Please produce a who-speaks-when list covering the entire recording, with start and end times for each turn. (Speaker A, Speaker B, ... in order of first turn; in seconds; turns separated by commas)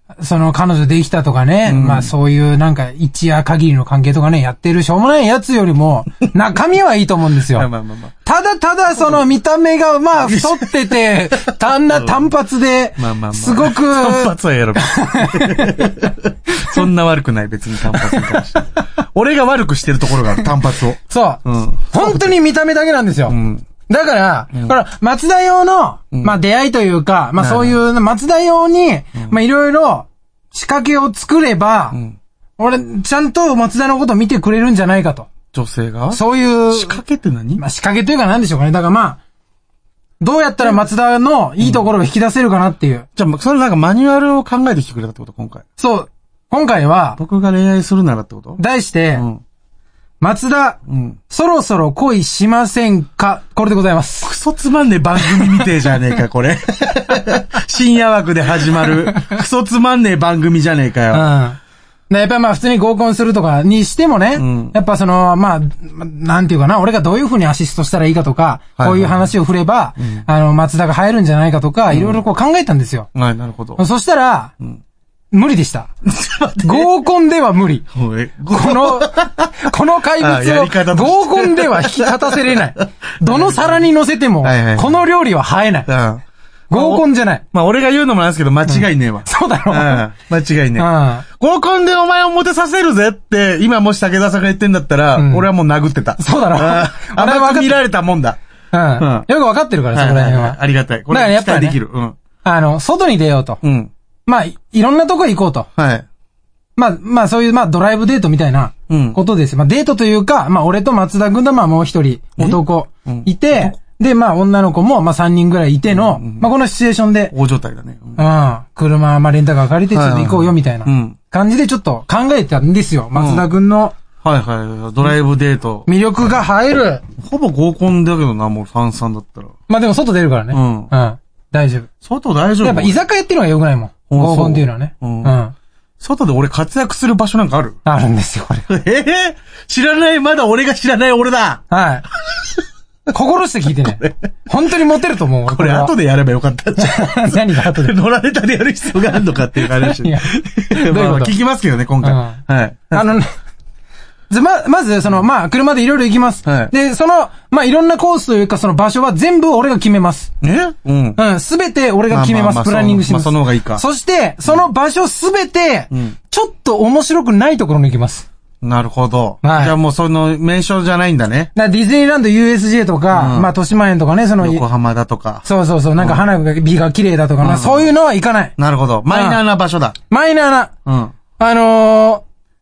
Speaker A: 0.2-7.7, Speaker B: 1.7-2.1, Speaker B: 7.5-8.2, Speaker A: 8.2-15.9, Speaker B: 8.9-9.2, Speaker B: 10.2-10.7, Speaker B: 11.9-12.2, Speaker B: 13.0-22.4, Speaker A: 16.6-16.8, Speaker A: 17.9-18.4, Speaker A: 21.1-23.4, Speaker B: 23.3-23.6, Speaker A: 23.9-32.0, Speaker B: 27.4-27.8, Speaker B: 31.9-32.2, Speaker A: 32.6-35.3, Speaker B: 35.5-37.6, Speaker A: 36.1-37.0, Speaker A: 37.6-39.2, Speaker A: 40.2-43.1, Speaker B: 41.6-41.9, Speaker B: 43.2-45.6, Speaker A: 45.8-47.2, Speaker B: 47.2-48.6, Speaker A: 48.6-49.2, Speaker B: 49.1-49.4, Speaker A: 50.2-54.3, Speaker B: 50.9-51.2, Speaker B: 54.2-61.3, Speaker A: 55.4-55.7, Speaker A: 61.1-61.6, Speaker A: 62.1-73.1, Speaker B: 64.3-64.8, Speaker B: 68.8-69.3, Speaker B: 70.0-70.3, Speaker B: 71.9-72.2, Speaker B: 73.1-73.8, Speaker A: 73.8-74.5, Speaker A: 75.3-75.9, Speaker B: 76.0-76.9, Speaker A: 76.6-77.9, Speaker B: 77.9-79.5, Speaker A: 78.5-85.9, Speaker B: 80.2-83.9, Speaker B: 84.4-85.0, Speaker B: 85.9-98.4, Speaker A: 86.7-87.4, Speaker A: 88.7-90.1, Speaker A: 90.8-91.2, Speaker A: 95.2-95.5, Speaker A: 96.2-97.8, Speaker A: 98.7-100.6, Speaker B: 99.0-99.3, Speaker B: 99.9-102.2, Speaker A: 101.1-101.8, Speaker A: 102.4-103.6, Speaker B: 103.6-103.9, Speaker A: 104.3-105.7, Speaker B: 105.8-106.1, Speaker A: 106.8-117.3, Speaker B: 108.9-109.2, Speaker B: 112.4-113.8, Speaker B: 115.9-116.5, Speaker B: 117.3-118.2, Speaker A: 118.2-124.0, Speaker B: 119.9-121.2, Speaker B: 123.1-123.5, Speaker B: 124.2-125.9, Speaker A: 125.9-127.0, Speaker B: 127.2-129.6, Speaker A: 129.7-131.9, Speaker B: 130.5-130.9, Speaker B: 132.0-133.0, Speaker A: 132.6-135.5, Speaker B: 134.1-135.3, Speaker B: 136.0-137.8, Speaker A: 137.8-138.7, Speaker B: 138.7-141.6, Speaker A: 141.7-142.1, Speaker A: 143.1-145.9, Speaker B: 143.8-144.2, Speaker B: 145.5-153.2, Speaker A: 146.8-147.9, Speaker A: 149.6-151.3, Speaker A: 152.0-152.4, Speaker A: 152.9-153.3, Speaker A: 154.3-160.3, Speaker B: 156.5-156.7, Speaker B: 160.4-161.2, Speaker A: 161.2-168.3, Speaker B: 162.1-163.8, Speaker B: 165.9-166.2, Speaker B: 168.6-171.5, Speaker A: 169.4-169.8, Speaker A: 171.6-174.6, Speaker B: 173.1-173.5, Speaker B: 174.4-175.4, Speaker A: 175.4-178.6, Speaker B: 176.0-176.3, Speaker B: 177.4-177.9, Speaker B: 178.6-180.0, Speaker A: 179.1-179.4, Speaker A: 180.1-180.7, Speaker B: 180.9-181.1, Speaker A: 181.4-182.2